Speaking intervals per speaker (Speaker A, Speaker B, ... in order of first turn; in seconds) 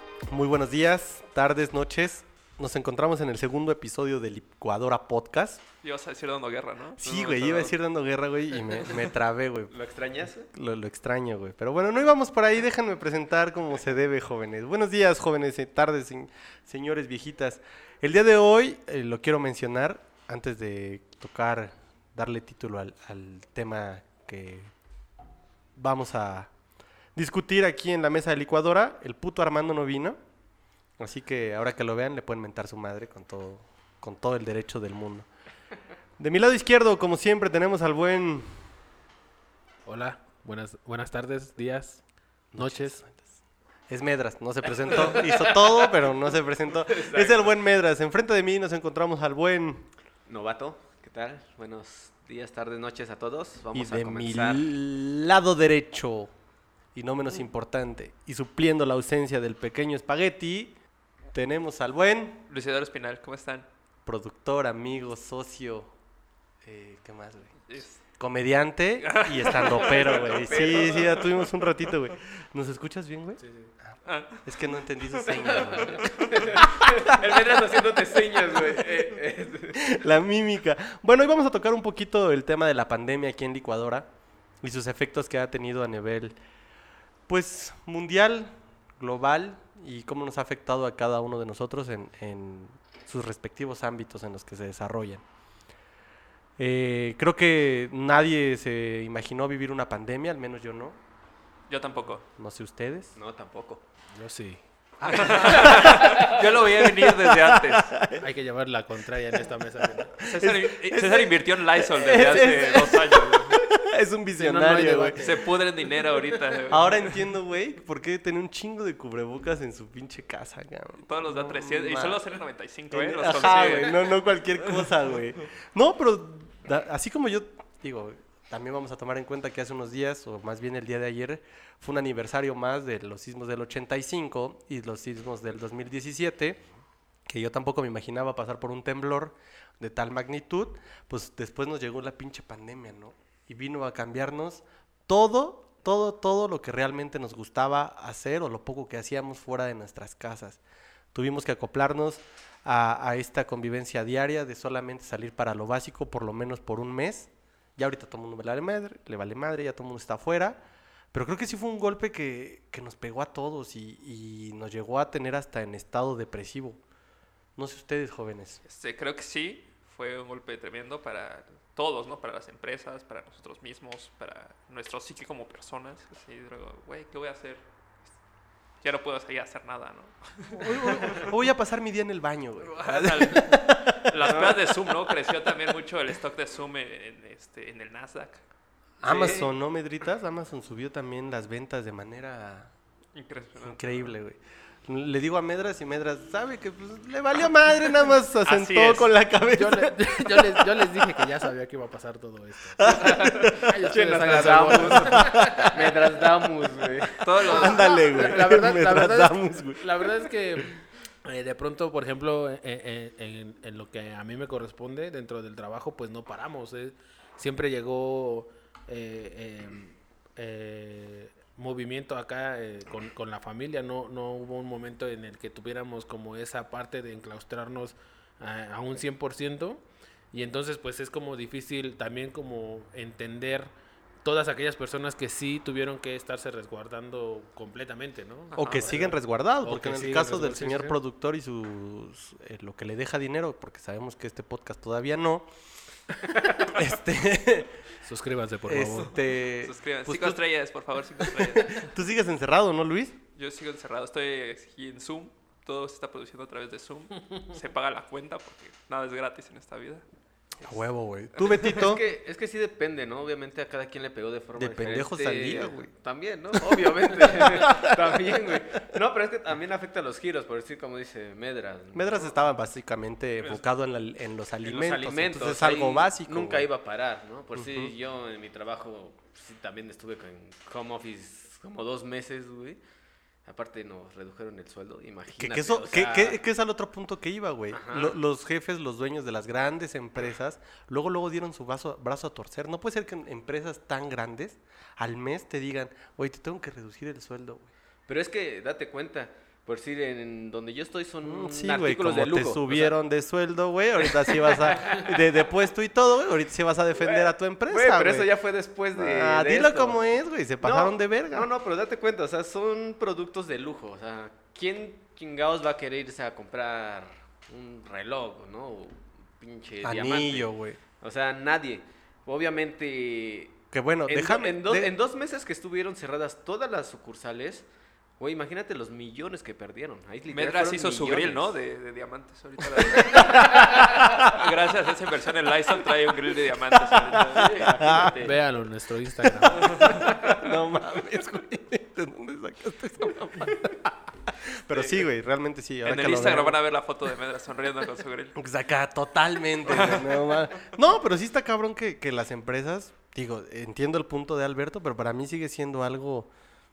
Speaker A: 0.3-5.6, 7.0-9.7, 10.5-24.7, 25.8-26.5, 27.1-30.2, 31.0-35.3, 36.2-38.5, 42.5-43.2, 43.9-49.9, 53.7-56.3, 57.0-60.8, 61.3-62.4, 64.1-65.9, 66.6-67.6, 68.2-77.8, 78.5-78.8, 79.8-84.1, 84.6-86.4, 87.3-95.2, 96.6-101.0, 102.4-103.1, 105.0-108.3, 110.1-115.3, 116.7-122.2, 122.9-136.6, 137.3-150.6, 151.1-160.6, 161.1-166.8, 167.6-168.6, 180.5-185.3, 189.0-192.7, 193.6-201.2, 202.8-203.7, 204.7-206.1, 207.4-210.8, 238.6-245.5, 246.6-247.8, 248.7-250.4, 251.2-253.2, 260.6-262.0, 264.6-265.9, 266.5-268.4, 271.9-276.7, 277.6-277.9, 285.4-297.7, 301.2-308.3, 308.9-311.5, 319.8-320.8, 323.7-324.9, 333.1-334.4, 336.8-338.2, 339.2-346.6, 348.4-356.3
Speaker B: 5.8-7.7, 62.5-63.7, 67.7-68.0, 69.0-71.0, 74.0-74.5, 75.3-76.1, 101.7-102.2, 105.1-107.9, 110.2-113.6, 115.2-117.1, 121.0-124.2, 168.7-177.7, 178.8-181.3, 182.6-188.4, 193.2-194.1, 198.4-199.1, 207.2-208.2, 238.6-238.9, 249.6-251.9, 253.4-260.0, 261.4-261.7, 330.3-338.1, 339.6-340.0, 345.8-348.4, 349.7-350.3
Speaker C: 9.7-10.5, 44.8-46.1, 46.7-47.5, 50.3-54.6, 69.7-71.3, 75.3-79.8, 103.2-103.8, 105.3-106.3, 184.2-184.7, 189.0-189.5, 203.0-207.8, 261.7-272.4, 274.6-282.8, 283.4-286.4, 287.7-288.2, 298.1-303.0, 304.2-305.1, 307.0-310.0, 310.6-320.5, 321.0-327.7, 328.2-331.5, 332.9-333.4, 337.3-338.4, 340.0-340.5, 344.7-345.0
Speaker D: 39.9-42.0, 42.5-43.0, 73.4-73.7, 104.2-104.6, 108.2-110.2, 114.4-115.4, 199.4-205.7, 207.8-233.7, 234.2-241.0, 248.0-249.2, 338.1-339.9